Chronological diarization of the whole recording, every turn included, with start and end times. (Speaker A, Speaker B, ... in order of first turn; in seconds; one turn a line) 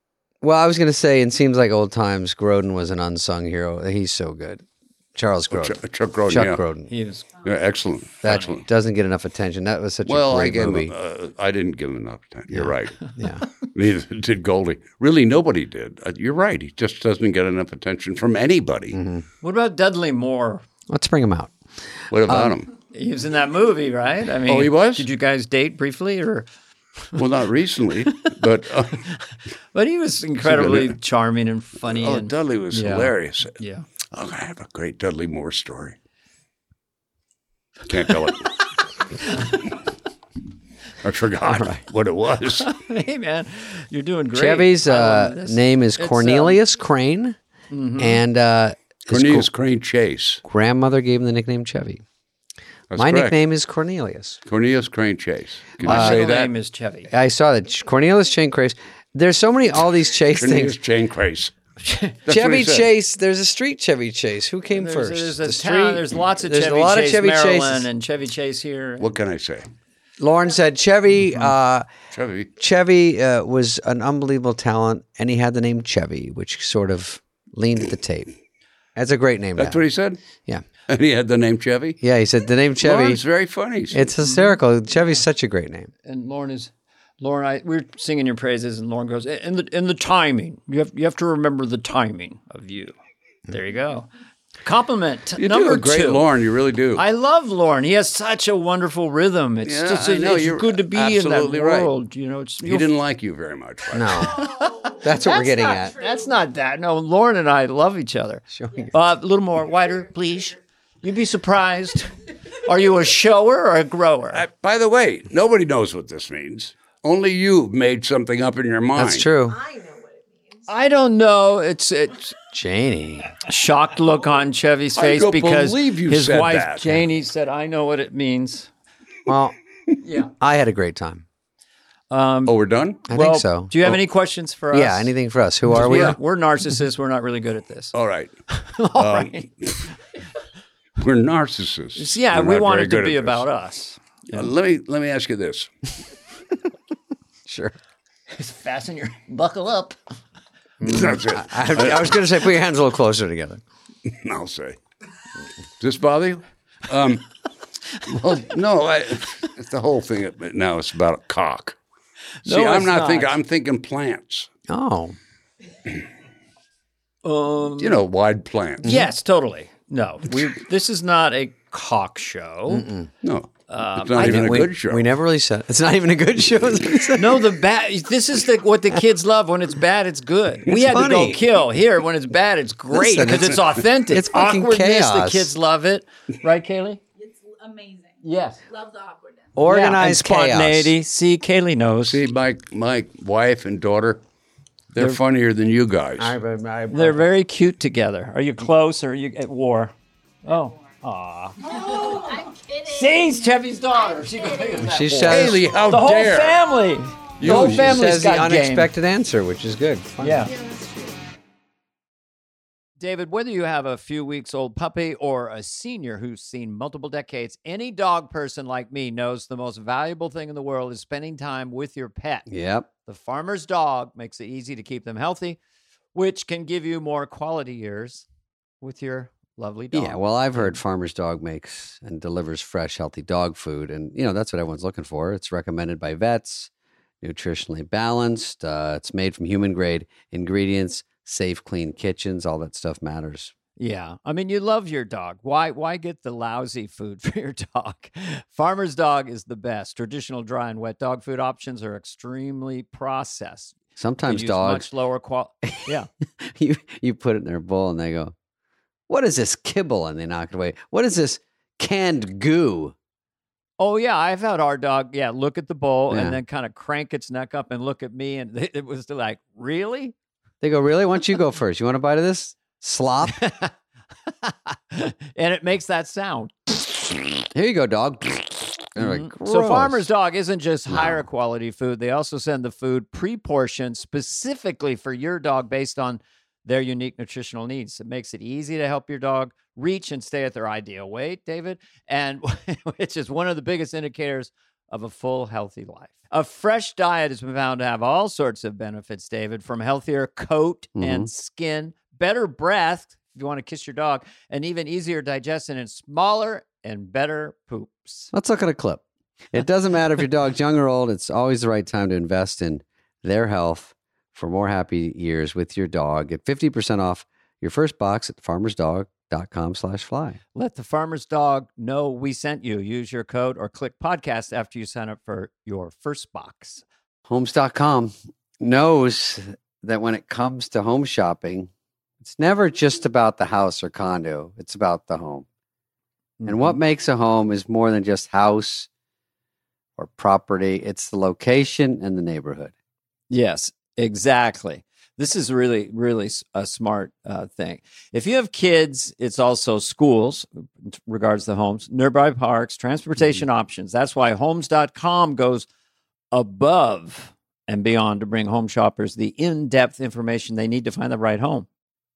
Speaker A: 0.4-4.6
Speaker A: 5.2-6.9
Speaker B: 5.5-6.6
Speaker C: 6.9-7.3
Speaker B: 7.4-8.6
Speaker A: 8.2-10.9
Speaker C: 8.3-8.6
Speaker B: 10.1-19.0
Speaker A: 12.5-13.4
Speaker A: 18.9-19.2
Speaker C: 19.4-20.6
Speaker A: 20.9-21.5
Speaker B: 22.1-22.7
Speaker A: 22.3-22.6
Speaker C: 22.9-26.5
Speaker B: 24.5-25.1
Speaker B: 27.1-29.0
Speaker C: 29.0-33.9
Speaker B: 30.4-31.0
Speaker B: 31.9-33.6
Speaker B: 34.1-36.0
Speaker B: 37.9-38.6
Speaker B: 41.0-42.7
Speaker A: 41.4-41.8
Speaker C: 42.6-46.6
Speaker A: 44.3-47.4
Speaker C: 47.7-48.2
Speaker A: 48.0-49.5
Speaker B: 49.1-50.4
Speaker A: 50.5-52.0
Speaker B: 52.9-53.4
Speaker A: 53.0-54.4
Speaker B: 54.5-56.5
Speaker C: 55.8-57.1
Speaker A: 55.8-56.2
Speaker A: 57.1-60.8
Speaker B: 60.3-61.5
Speaker C: 61.8-62.2
Speaker B: 62.3-62.9
Speaker A: 62.3-67.9
Speaker C: 64.7-69.1
Speaker B: 69.0-69.7
Speaker A: 70.2-71.9
Speaker B: 72.1-72.5
Speaker A: 72.6-78.3
Speaker A: 79.0-79.8
Speaker B: 79.6-80.2
Speaker B: 80.9-82.0
Speaker A: 82.0-83.2
Speaker B: 82.8-84.1
Speaker A: 83.9-85.9
Speaker C: 84.2-84.5
Speaker C: 86.0-93.0
Speaker C: 93.5-94.1
Speaker C: 94.6-96.2
Speaker B: 95.4-97.0
Speaker C: 97.0-102.9
Speaker B: 99.7-101.9
Speaker B: 102.6-104.3
Speaker A: 103.9-104.5
Speaker D: 104.1-106.4
Speaker C: 104.4-104.9
Speaker A: 105.0-106.0
Speaker C: 106.0-114.4
Speaker A: 108.5-108.9
Speaker D: 109.8-110.5
Speaker B: 114.3-119.3
Speaker A: 119.0-119.6
Speaker D: 119.4-120.7
Speaker C: 120.7-122.3
Speaker A: 122.5-123.3
Speaker C: 123.4-128.7
Speaker B: 125.0-127.0
Speaker A: 129.3-129.6
Speaker C: 130.0-130.3
Speaker A: 130.4-131.2
Speaker C: 132.1-132.6
Speaker B: 132.5-133.0
Speaker A: 133.1-134.0
Speaker C: 133.1-135.1
Speaker A: 134.7-136.2
Speaker C: 135.7-137.9
Speaker B: 135.8-136.2
Speaker B: 137.9-138.3
Speaker C: 138.5-139.5
Speaker B: 138.9-139.9
Speaker B: 141.0-143.5
Speaker C: 142.0-144.5
Speaker B: 144.3-145.7
Speaker A: 147.5-147.8
Speaker C: 148.3-150.0
Speaker A: 150.8-153.6
Speaker B: 150.8-152.2
Speaker B: 154.1-154.8
Speaker B: 155.8-157.2
Speaker B: 158.0-161.8
Speaker C: 162.4-163.4
Speaker B: 162.4-164.5
Speaker A: 164.7-165.2
Speaker C: 167.2-168.0
Speaker B: 167.8-168.9
Speaker C: 168.8-172.9
Speaker A: 172.7-173.1
Speaker B: 173.2-175.1
Speaker C: 173.7-174.6
Speaker A: 174.2-177.5
Speaker C: 177.2-187.0
Speaker A: 180.7-181.4
Speaker A: 182.9-185.5
Speaker E: 187.2-189.6
Speaker C: 188.2-188.6
Speaker A: 189.6-190.9
Speaker C: 189.6-192.2
Speaker B: 192.1-194.2
Speaker B: 194.9-196.4
Speaker A: 196.2-197.2
Speaker C: 196.9-199.9
Speaker C: 200.4-208.9
Speaker E: 201.6-204.8
Speaker A: 204.8-205.6
Speaker B: 205.3-206.6
Speaker B: 207.4-208.1
Speaker A: 207.4-210.5
Speaker C: 210.2-210.5
Speaker D: 210.5-211.2
Speaker C: 213.0-222.5
Speaker A: 222.5-222.9
Speaker C: 223.1-225.6
Speaker C: 226.1-228.3
Speaker C: 228.8-230.8
Speaker A: 229.9-236.7
Speaker A: 237.2-243.5
Speaker C: 243.8-256.1
Speaker A: 254.0-254.9
Speaker A: 255.6-258.3
Speaker A: 259.1-262.9
Speaker C: 263.8-270.1
Speaker A: 266.1-266.4
Speaker A: 270.6-273.4
Speaker C: 273.4-273.7
Speaker C: 274.4-277.1
Speaker A: 277.5-280.1
Speaker C: 279.0-308.3
Speaker A: 280.9-281.2
Speaker A: 301.0-301.3
Speaker A: 308.3-320.4
Speaker C: 320.6-326.8
Speaker A: 327.3-331.7
Speaker A: 332.2-335.5
Speaker C: 336.4-336.8
Speaker A: 336.5-338.9
Speaker A: 340.0-342.7
Speaker C: 343.3-355.7
Speaker C: 356.3-361.7